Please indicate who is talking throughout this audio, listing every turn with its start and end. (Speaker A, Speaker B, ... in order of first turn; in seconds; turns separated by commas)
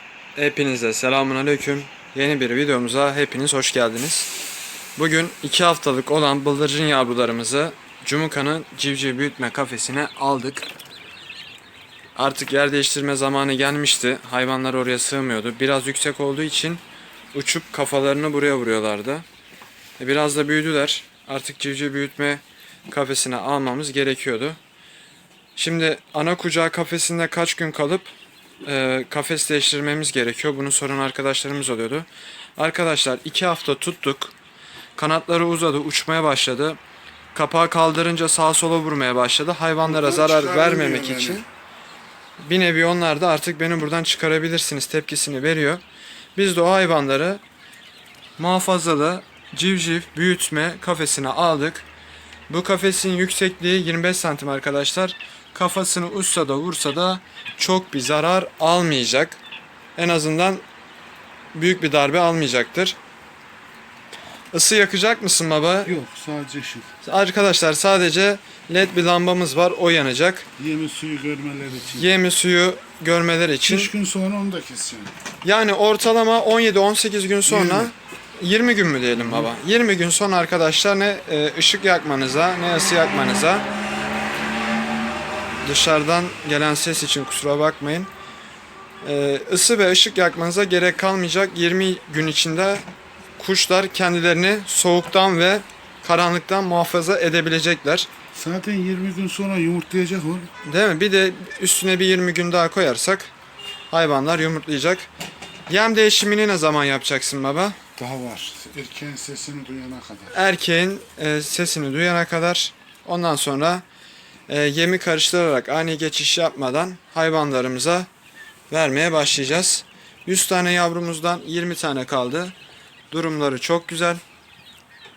Speaker A: 0.4-4.3, Speaker A: 5.0-10.7, Speaker A: 12.2-16.8, Speaker A: 17.3-19.3, Speaker A: 20.0-24.6, Speaker A: 25.6-28.1, Speaker A: 28.6-34.3, Speaker A: 35.0-36.8, Speaker A: 37.3-41.5, Speaker B: 39.9-41.4, Speaker A: 42.4-45.8, Speaker A: 46.4-47.4, Speaker A: 48.4-51.9, Speaker A: 52.5-59.4, Speaker A: 60.0-60.6, Speaker A: 61.5-63.0, Speaker A: 64.5-65.9, Speaker B: 65.8-66.9, Speaker A: 67.0-70.5, Speaker B: 70.6-72.1, Speaker A: 72.0-73.9, Speaker B: 73.6-75.1, Speaker A: 75.4-83.7, Speaker B: 77.5-77.9, Speaker B: 79.2-79.5, Speaker A: 85.6-88.1, Speaker A: 89.0-92.8, Speaker A: 93.4-98.1, Speaker B: 98.3-100.5, Speaker A: 100.7-103.3, Speaker A: 103.9-105.1, Speaker A: 105.7-107.8, Speaker B: 108.0-110.3, Speaker A: 110.3-113.8, Speaker A: 114.5-118.1, Speaker A: 118.7-122.5, Speaker A: 123.1-124.2